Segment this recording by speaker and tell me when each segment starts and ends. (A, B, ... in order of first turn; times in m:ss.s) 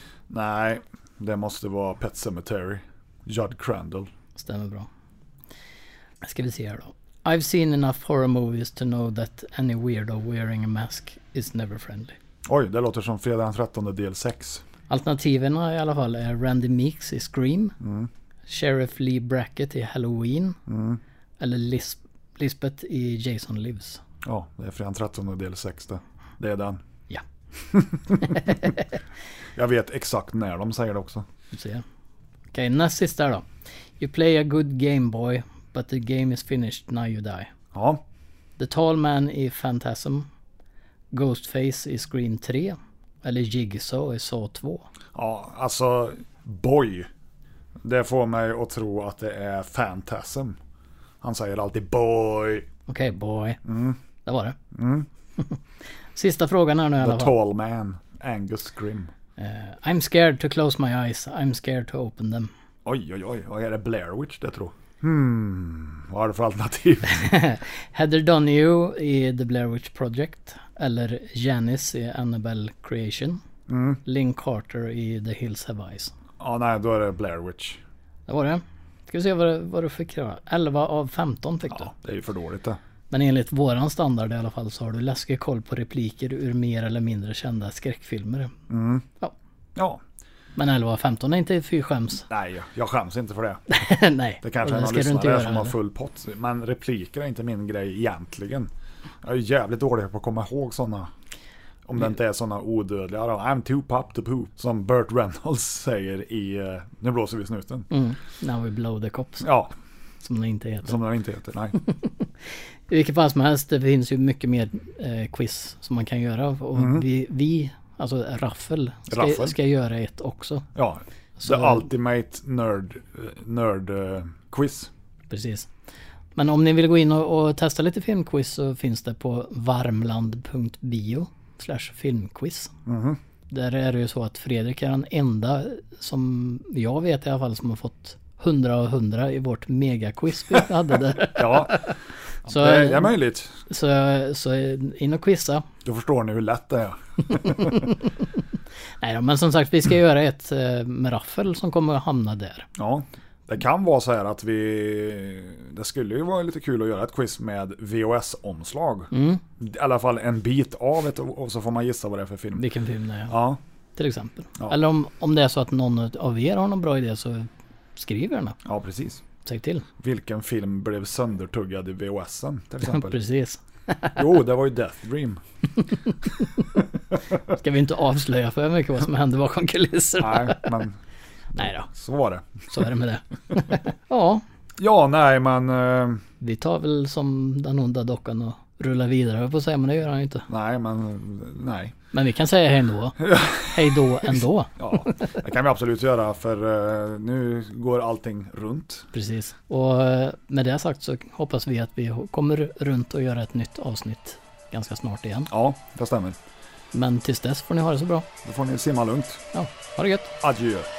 0:00.3-0:04.1 A
0:04.4-0:04.9 B
0:06.2-0:12.2 B
0:12.4-0:14.6 A
0:14.9-0:17.8 B
0:17.8-0:18.1 A
0:18.5-0:20.6 B
0:20.7-0:21.0 A
0:21.4-0:24.0 B
0:24.2-0:26.8 A
0:27.7-0:28.6 A
0:28.2-0:28.7 B
0:29.6-0:31.3 A
0:31.5-0:31.8 B
0:32.5-0:33.4 B
0:34.0-0:37.5 B
0:37.7-0:38.0 A
0:38.6-0:40.3 B
0:41.1-0:44.9 B
0:45.1-0:47.1 A
0:47.8-0:50.6 A
0:51.2-0:52.7 A
0:52.9-0:53.6 B
0:53.6-0:54.0 A
0:54.2-0:54.6 B
0:54.7-0:55.1 A
0:56.1-0:57.3 B
0:57.0-0:59.1 A
0:59.4-1:02.5 B
1:02.8-1:07.3 A
1:07.1-1:13.4 B
1:13.7-1:14.0 A
1:14.0-1:16.1 B
1:16.4-1:17.8 A
1:18.3-1:21.9 B
1:21.7-1:22.8 A
1:23.1-1:28.5 B
1:28.7-1:29.1 A
1:29.8-1:30.0 A
1:30.6-1:32.3 B
1:32.3-1:33.8 A
1:33.7-1:35.8 B
1:34.4-1:38.7 A
1:39.2-1:41.1 A
1:41.8-1:47.9 A
1:47.9-1:49.5 B
1:49.4-1:49.7 A
1:50.2-1:51.0 B
1:50.8-1:51.8 A
1:51.8-2:00.7 B
1:56.7-1:57.1 A
1:59.1-1:59.6 A
2:00.7-2:04.9 A
2:01.4-2:01.9 B
2:05.3-2:05.7 B
2:06.4-2:12.7 B
2:12.8-2:13.2 A
2:13.5-2:21.9 B
2:21.3-2:23.6 A
2:22.4-2:23.1 B
2:23.7-2:25.6 B
2:25.8-2:27.9 A
2:27.5-2:28.1 B
2:29.0-2:32.7 B
2:32.8-2:42.6 A
2:39.1-2:39.4 B
2:42.6-2:43.4 B
2:43.3-2:43.6 A
2:44.0-2:48.6 B
2:48.6-2:49.2 A
2:49.4-2:49.8 B
2:50.0-2:53.2 A
2:52.8-2:54.2 B
2:54.2-2:55.4 A
2:56.4-2:56.6 B
2:57.5-3:00.8 B
3:00.2-3:01.0 A
3:01.5-3:02.9 A
3:01.6-3:01.9 B
3:02.7-3:04.4 B
3:04.8-3:06.2 A
3:06.4-3:10.5 B
3:10.5-3:12.0 A
3:12.1-3:15.3 B
3:13.2-3:19.1 A
3:19.1-3:25.5 B
3:25.5-3:26.4 A
3:26.9-3:28.3 B
3:28.4-3:29.4 A
3:29.5-3:30.3 B
3:30.4-3:30.9 A